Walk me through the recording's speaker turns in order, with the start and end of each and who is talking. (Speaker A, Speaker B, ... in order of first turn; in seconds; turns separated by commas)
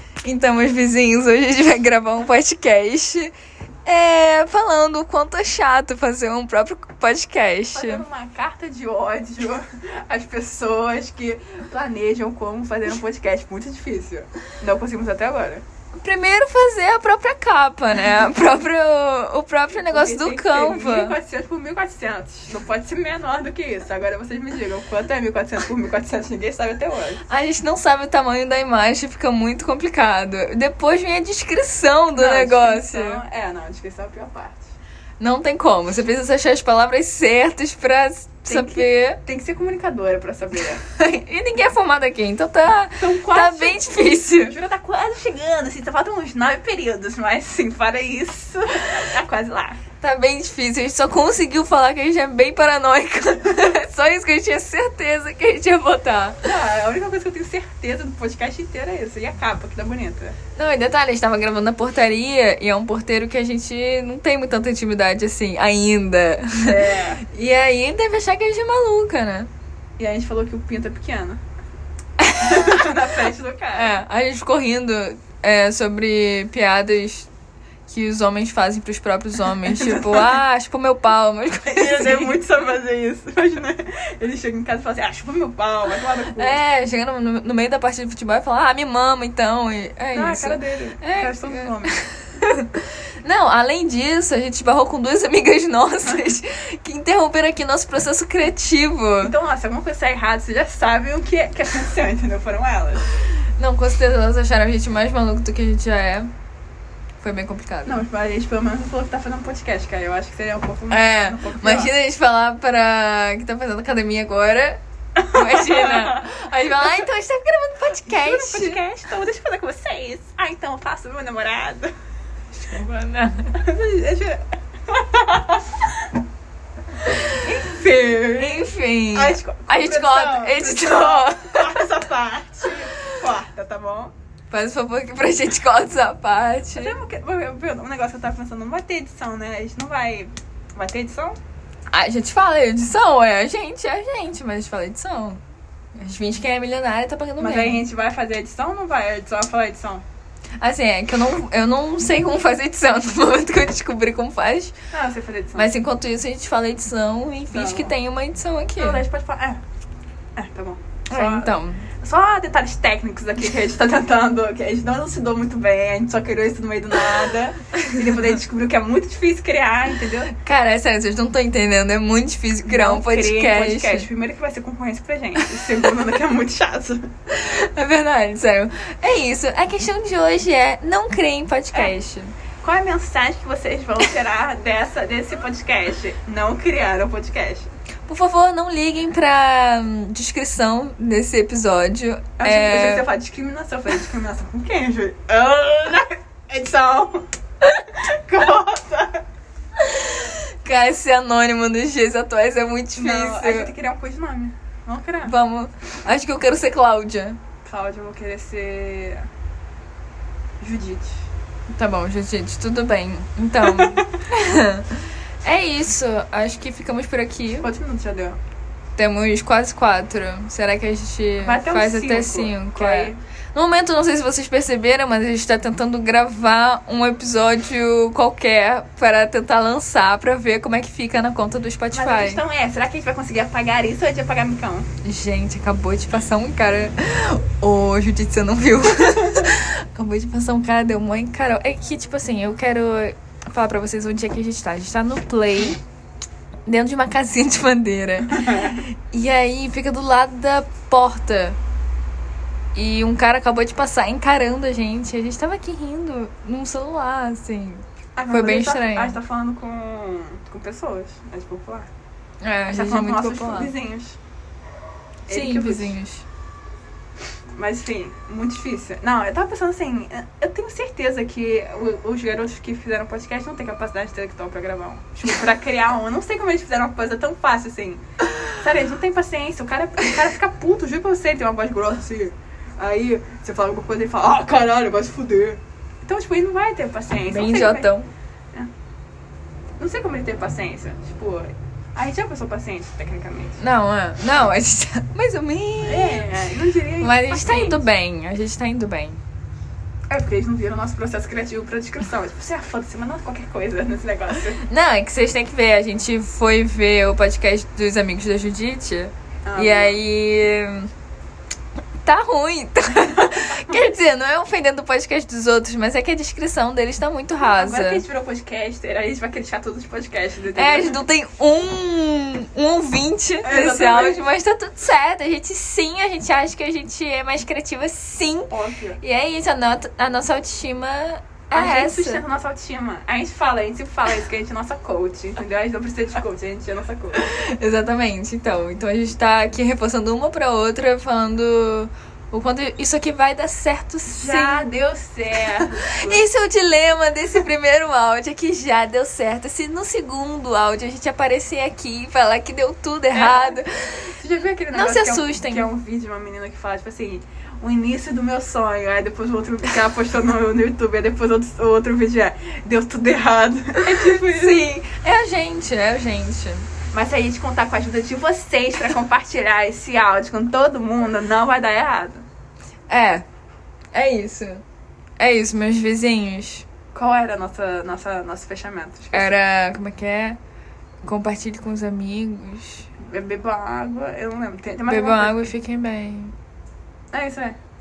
Speaker A: 0.2-3.3, Speaker A: 3.8-8.0, Speaker B: 7.7-15.6, Speaker A: 16.0-21.1, Speaker B: 19.8-27.2, Speaker A: 27.3-33.2, Speaker B: 32.1-34.7, Speaker A: 35.2-39.2, Speaker B: 38.5-40.8, Speaker A: 41.0-44.5, Speaker B: 43.0-49.8, Speaker A: 50.0-56.4, Speaker B: 56.4-60.4, Speaker A: 60.5-69.5, Speaker B: 66.6-67.2, Speaker B: 70.0-71.4, Speaker A: 72.2-72.8, Speaker B: 72.4-73.9, Speaker A: 73.7-77.3, Speaker A: 77.9-82.4, Speaker B: 79.6-80.4, Speaker B: 81.6-86.6, Speaker A: 86.3-99.3, Speaker B: 90.1-92.0, Speaker B: 99.2-103.0, Speaker A: 103.6-106.3, Speaker A: 107.2-108.0, Speaker B: 107.8-111.9, Speaker A: 110.9-118.8, Speaker B: 115.2-116.2, Speaker B: 118.0-121.9, Speaker A: 122.5-123.5, Speaker B: 123.5-125.9, Speaker B: 127.3-134.1, Speaker A: 128.3-131.9, Speaker A: 134.5-136.9, Speaker B: 136.8-141.4, Speaker A: 141.9-145.4, Speaker A: 145.9-147.8, Speaker B: 147.4-150.0, Speaker A: 150.6-154.7, Speaker B: 154.9-155.7, Speaker A: 155.5-159.0, Speaker B: 157.5-157.9, Speaker B: 158.8-159.6, Speaker B: 160.3-170.3, Speaker A: 161.1-161.9, Speaker A: 170.3-174.1, Speaker B: 172.6-177.1, Speaker A: 177.3-182.3, Speaker B: 182.6-187.7, Speaker A: 188.1-193.1, Speaker B: 192.4-199.2, Speaker A: 199.8-203.7, Speaker B: 202.9-205.3, Speaker A: 205.2-207.4, Speaker B: 207.6-209.3, Speaker B: 210.6-211.1, Speaker A: 211.7-217.7, Speaker B: 213.6-214.1, Speaker B: 217.6-218.4, Speaker A: 219.0-232.4, Speaker B: 221.4-223.2, Speaker B: 231.9-234.9, Speaker A: 235.0-245.8, Speaker A: 246.7-251.6, Speaker B: 248.3-248.8, Speaker A: 252.7-259.1, Speaker B: 258.1-261.9, Speaker A: 262.4-263.7, Speaker B: 262.7-264.2, Speaker B: 265.3-266.0, Speaker A: 265.3-266.2, Speaker B: 267.6-278.0, Speaker B: 278.6-287.9, Speaker A: 287.3-288.1, Speaker B: 289.8-293.6, Speaker A: 293.6-296.4, Speaker B: 295.8-297.8, Speaker A: 297.0-299.2, Speaker B: 300.1-304.6, Speaker A: 304.6-310.9, Speaker B: 309.4-310.0, Speaker A: 312.0-318.0, Speaker B: 313.4-313.7, Speaker B: 317.4-321.0, Speaker A: 320.5-332.2, Speaker B: 323.4-324.2, Speaker B: 328.5-329.0, Speaker B: 331.5-337.2, Speaker A: 337.1-344.6, Speaker B: 344.1-346.2, Speaker A: 345.9-354.2, Speaker B: 353.1-364.7, Speaker A: 354.7-355.7, Speaker A: 363.9-366.7, Speaker B: 366.9-372.2, Speaker A: 372.9-373.2, Speaker A: 373.9-374.6, Speaker A: 375.2-376.6, Speaker B: 376.9-379.4, Speaker A: 379.1-380.4, Speaker A: 381.0-382.9, Speaker B: 383.0-385.5, Speaker A: 384.9-386.3, Speaker B: 387.1-387.6